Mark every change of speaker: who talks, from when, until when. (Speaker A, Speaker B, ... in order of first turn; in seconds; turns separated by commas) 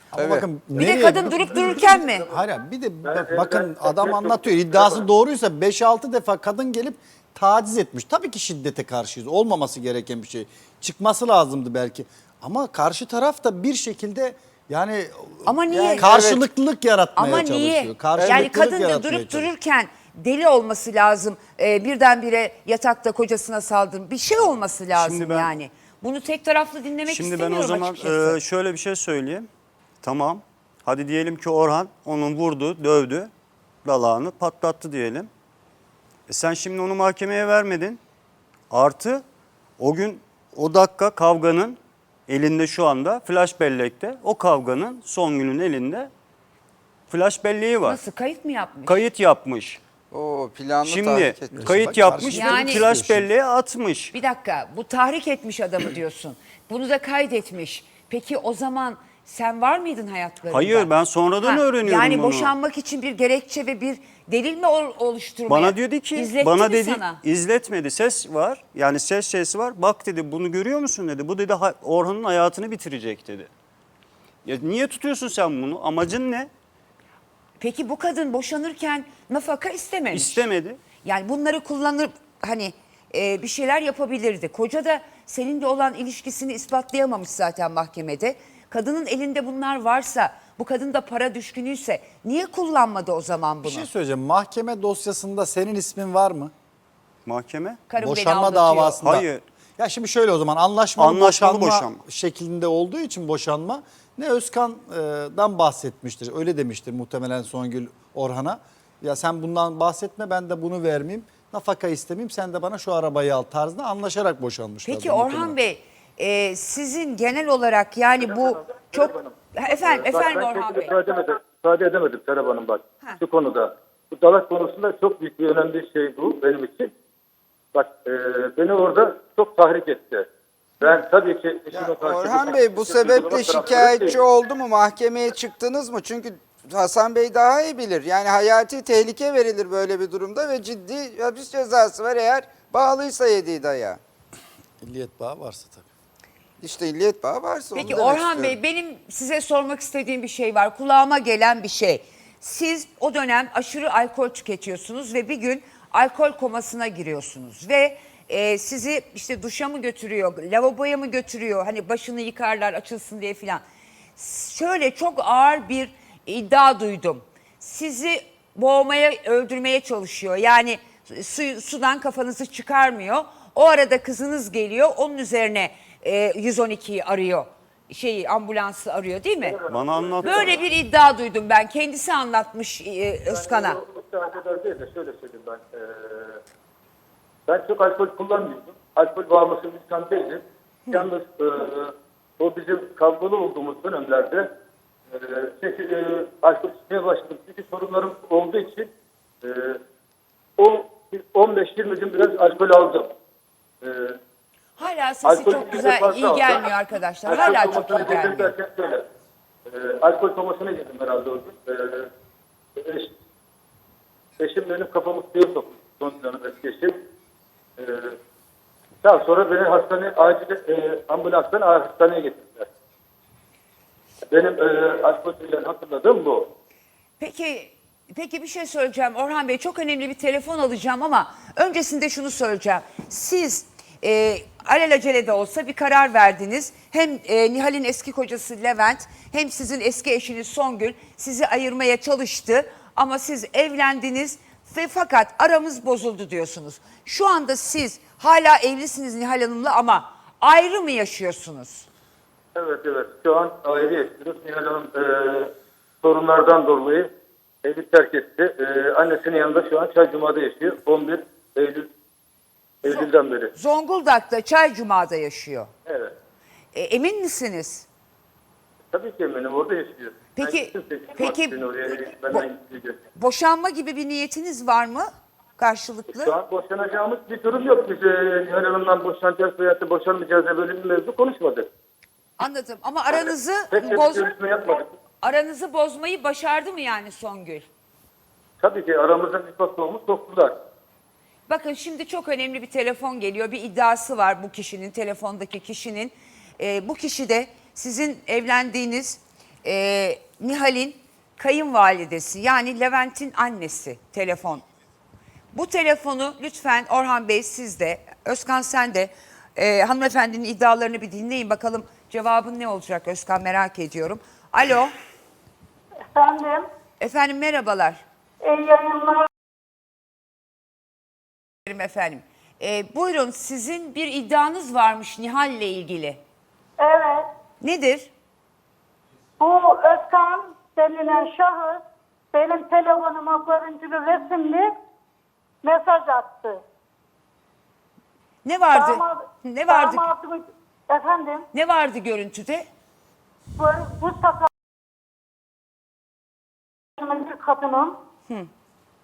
Speaker A: 0.1-19.5, Speaker B: 0.1-0.5, Speaker C: 0.8-2.3, Speaker D: 3.0-5.1, Speaker C: 15.4-16.1, Speaker B: 15.7-16.4, Speaker C: 17.1-28.4, Speaker B: 18.1-18.5, Speaker E: 24.9-25.5, Speaker E: 27.1-29.5, Speaker E: 30.0-33.3, Speaker E: 33.8-35.3, Speaker E: 36.3-38.0, Speaker E: 38.7-39.2, Speaker E: 39.8-41.8, Speaker E: 42.3-46.1, Speaker E: 47.1-48.0, Speaker C: 47.8-49.0, Speaker E: 48.9-49.8, Speaker B: 50.1-52.1, Speaker E: 50.8-54.1, Speaker A: 51.5-53.3, Speaker C: 52.3-52.9, Speaker C: 54.1-60.9, Speaker E: 60.5-62.5, Speaker C: 61.4-67.2, Speaker E: 65.5-73.5, Speaker E: 74.4-76.5, Speaker C: 77.6-80.5, Speaker E: 80.1-80.8, Speaker C: 81.0-93.9, Speaker A: 93.6-96.5, Speaker E: 97.2-97.8, Speaker C: 97.9-99.0, Speaker A: 98.0-99.3, Speaker E: 99.0-99.4, Speaker A: 99.8-115.5, Speaker E: 101.0-102.0, Speaker C: 114.8-120.9, Speaker D: 118.2-126.9, Speaker D: 127.7-130.2, Speaker D: 130.8-134.2, Speaker B: 131.7-144.0, Speaker A: 144.8-145.9, Speaker B: 146.6-148.6, Speaker C: 147.7-163.6, Speaker C: 164.2-179.6, Speaker D: 179.4-180.6, Speaker E: 179.7-180.6, Speaker C: 180.2-183.8, Speaker D: 183.3-186.4, Speaker D: 187.5-194.5, Speaker D: 195.1-198.9, Speaker D: 199.4-199.8, Speaker D: 200.6-203.1, Speaker D: 203.8-204.2, Speaker C: 204.8-208.5, Speaker D: 205.2-206.7, Speaker D: 207.2-209.1, Speaker D: 209.7-212.1, Speaker D: 212.8-213.1, Speaker D: 214.4-217.1, Speaker D: 217.8-218.2, Speaker D: 219.0-222.7, Speaker D: 224.3-226.5, Speaker C: 227.2-251.9, Speaker D: 252.5-257.1, Speaker D: 257.6-261.9, Speaker D: 262.8-263.5, Speaker C: 262.9-265.7, Speaker D: 265.9-266.1, Speaker C: 266.7-267.9, Speaker D: 268.9-273.0, Speaker C: 270.4-271.6, Speaker C: 273.1-276.3, Speaker D: 276.1-281.7, Speaker C: 282.4-284.3, Speaker D: 283.7-284.9, Speaker C: 285.2-287.7, Speaker D: 288.6-290.6, Speaker C: 291.5-304.6, Speaker C: 305.5-314.9, Speaker F: 316.1-316.7, Speaker C: 317.0-318.0, Speaker F: 318.4-319.3, Speaker C: 321.7-326.2, Speaker F: 326.8-327.3, Speaker C: 327.6-328.1, Speaker F: 329.4-334.7, Speaker F: 335.6-336.6, Speaker C: 338.4-340.1, Speaker F: 338.7-341.5, Speaker C: 341.5-342.7, Speaker F: 343.6-344.5, Speaker F: 347.0-348.0